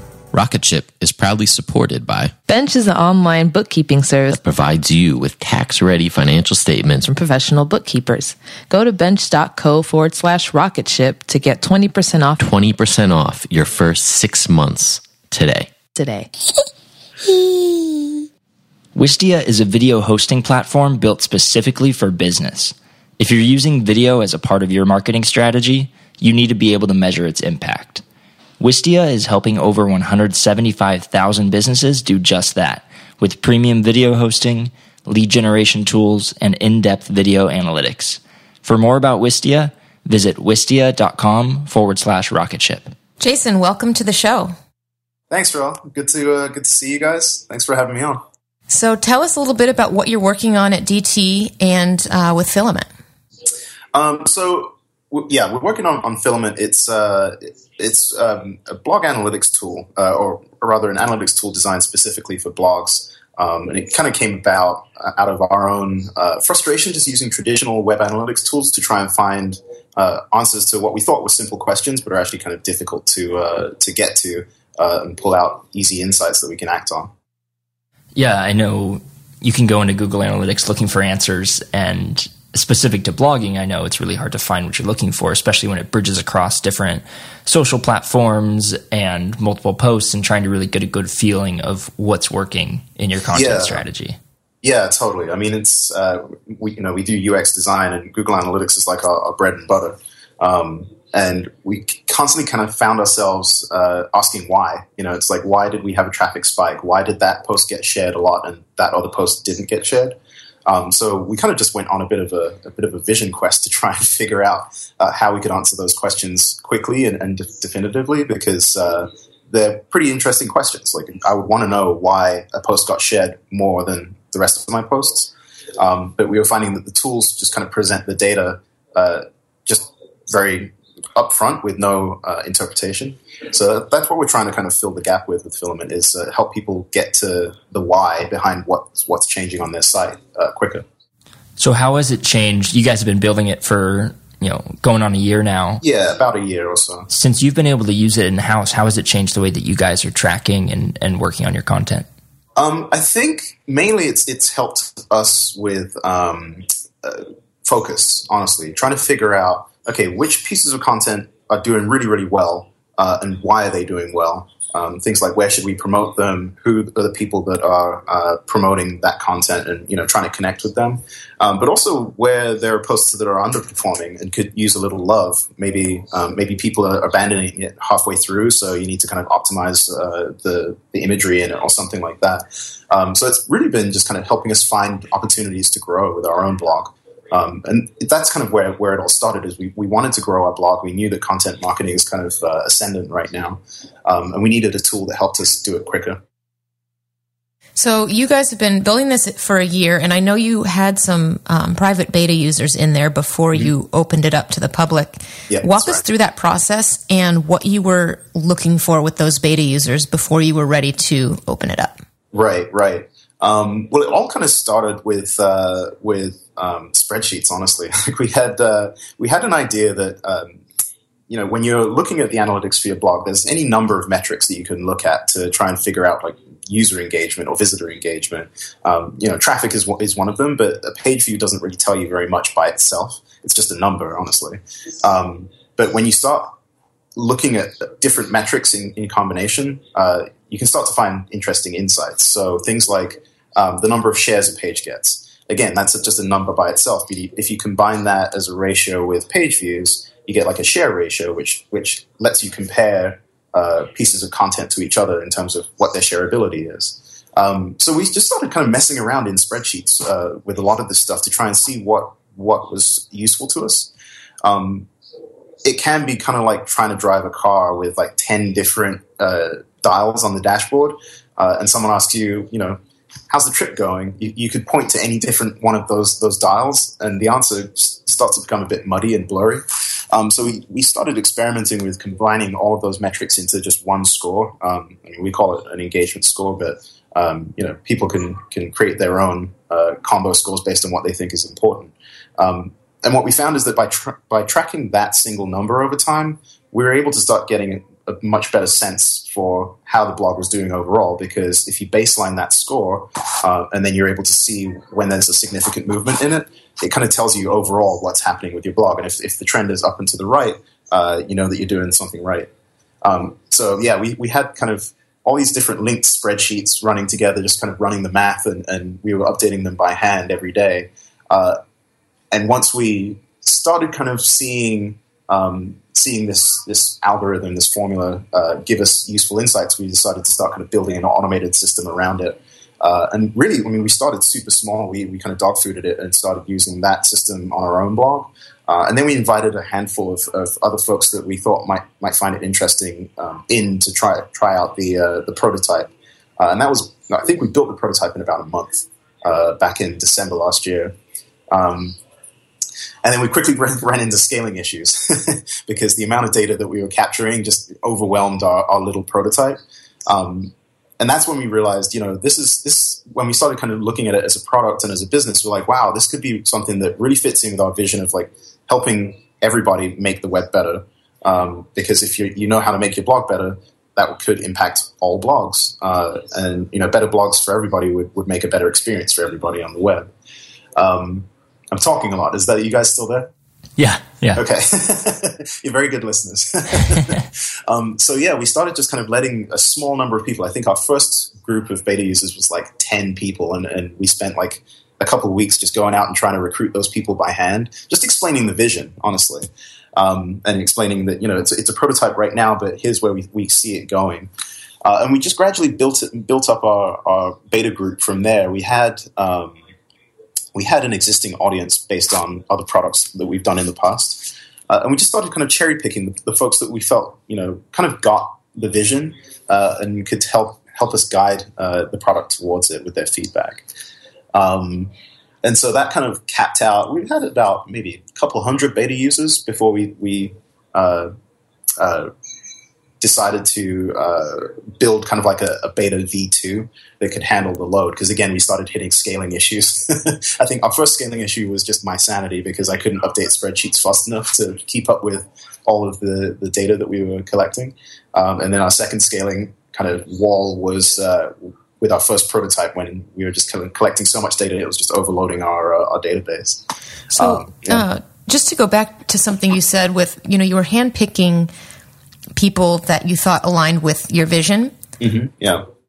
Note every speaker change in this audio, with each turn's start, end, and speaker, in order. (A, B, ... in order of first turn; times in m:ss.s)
0:00.3-0:02.3 A
0:02.5-0:04.3 B
0:04.3-0:07.1 A
0:07.0-0:12.4 B
0:12.4-0:15.7 A
0:15.9-0:16.3 B
0:19.0-0:28.0 C
0:28.6-0:42.9 C
0:43.2-0:44.5 D
0:45.3-0:48.2 E
0:48.7-0:52.9 D
0:53.9-1:17.1 E
1:18.2-1:34.2 C
1:33.3-1:33.8 E
1:34.6-2:20.9 E
2:21.6-2:25.8 C
2:25.8-2:27.1 E
2:27.1-2:32.1 C
2:32.6-3:16.2 E
3:17.8-3:32.0 D
3:25.5-3:26.0 E
3:32.3-3:40.6 E
3:41.3-3:56.6 E
3:57.2-4:23.9 E
4:24.4-4:24.9 E
4:25.6-5:12.5 E
5:13.0-5:21.6 E
5:22.3-5:50.9 E
5:51.5-5:52.0 E
5:53.0-6:20.1 E
6:20.8-6:23.3 E
6:23.8-6:24.4 C
6:24.4-6:44.3 E
6:44.8-6:49.6 E
6:50.5-7:03.7 E
7:04.3-7:04.9 E
7:05.4-7:11.1 E
7:11.8-7:12.1 E
7:13.0-7:37.9 E
7:37.2-7:41.5 D
7:42.4-7:44.8 D
7:45.0-7:45.7 E